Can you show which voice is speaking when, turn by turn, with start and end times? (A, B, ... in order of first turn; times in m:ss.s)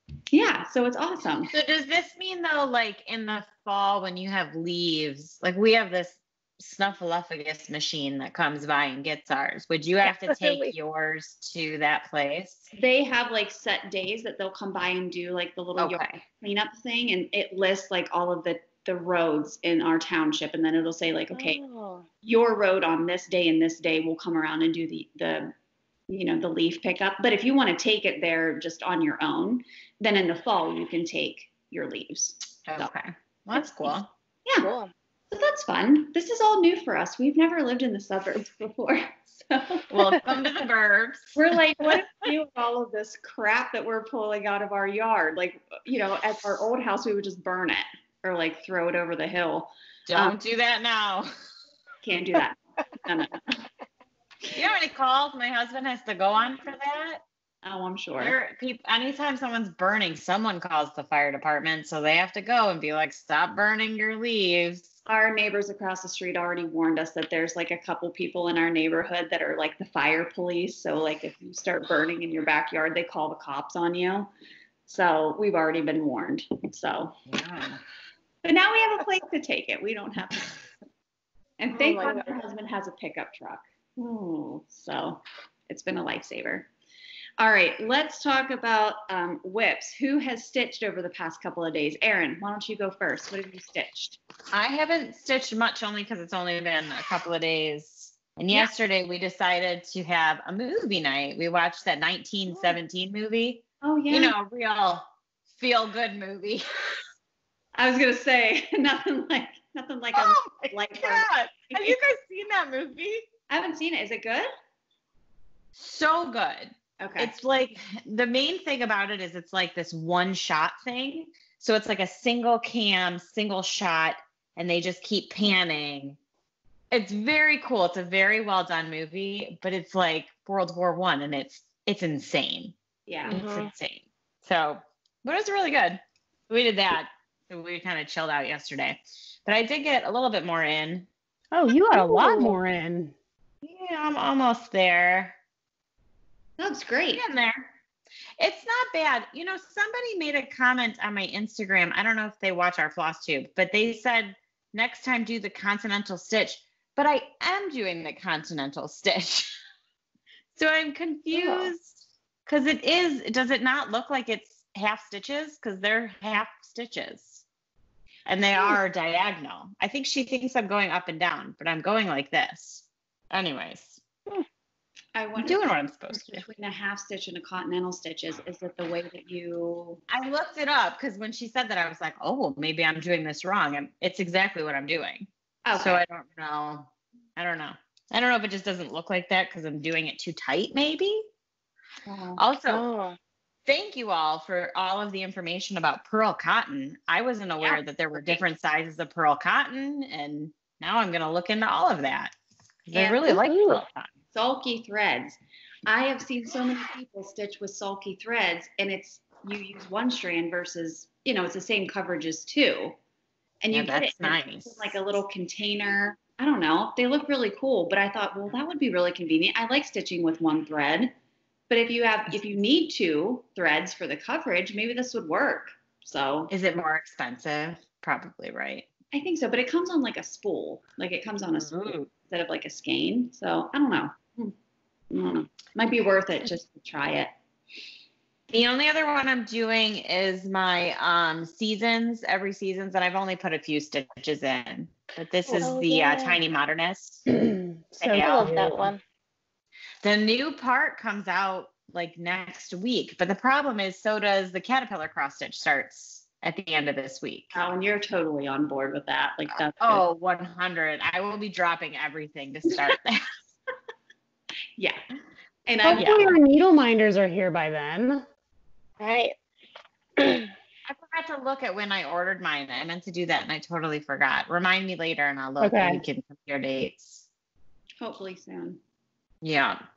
0:00.3-0:01.5 A
0:01.5-0:12.7 B
0:10.0-0:10.7 C
0:12.7-0:21.6 A
0:15.8-0:16.1 B
0:21.3-0:22.0 C
0:22.2-0:25.5 A
0:26.1-0:32.9 A
0:32.6-0:34.1 B
0:34.6-0:34.9 C
0:35.3-0:39.9 A
0:39.9-0:41.6 B
0:41.4-0:50.4 A
0:50.1-0:51.3 B
0:52.0-0:53.4 A
0:54.5-0:57.2 B
0:57.6-0:58.4 A
0:58.2-1:04.9 B
1:05.0-1:14.3 A
1:14.9-1:17.1 A
1:17.3-1:17.8 B
1:18.4-1:20.6 A
1:21.6-1:26.7 A
1:21.7-1:22.3 C
1:27.4-1:34.2 A
1:34.5-1:46.8 B
1:43.8-1:44.3 A
1:47.8-1:52.0 A
1:50.1-1:53.2 B
1:53.5-1:54.5 A
1:55.8-2:06.2 B
1:57.0-1:57.3 A
2:06.9-2:12.7 B
2:13.1-2:13.4 A
2:13.2-2:21.1 B
2:13.3-2:13.7 C
2:21.5-2:23.1 D
2:21.9-2:22.6 C
2:23.6-2:25.4 B
2:26.6-2:27.2 A
2:27.1-2:27.7 B
2:28.4-2:39.5 B
2:40.6-2:47.4 B
2:41.4-2:41.7 C
2:48.2-2:54.0 B
2:55.1-2:55.6 A
2:55.4-2:56.4 B
2:56.1-3:00.0 A
3:00.1-3:11.2 B
3:05.6-3:06.0 A
3:12.0-3:12.4 A
3:12.4-3:12.8 B
3:12.7-3:13.2 C
3:13.6-3:22.3 B
3:17.6-3:18.4 A
3:22.9-3:24.1 B
3:22.9-3:23.3 A
3:23.3-3:23.8 C
3:24.3-3:33.0 A
3:33.6-3:41.1 A
3:33.7-3:34.9 B
3:41.7-3:46.5 A
3:46.5-3:48.9 B
3:49.1-3:54.5 A
3:51.6-3:52.1 B
3:55.1-3:57.3 A
3:58.5-4:07.3 B
4:05.5-4:06.4 C
4:07.3-4:08.9 D
4:08.0-4:08.8 B
4:08.1-4:09.0 C
4:10.0-4:17.6 B
4:17.5-4:20.0 A
4:19.8-4:23.4 B
4:25.6-4:26.3 A
4:25.8-4:28.2 D
4:25.9-4:26.2 B
4:29.0-4:29.3 C
4:30.2-4:30.5 C
4:30.8-4:37.2 B
4:35.6-4:36.0 D
4:38.0-4:38.8 A
4:39.4-4:39.8 B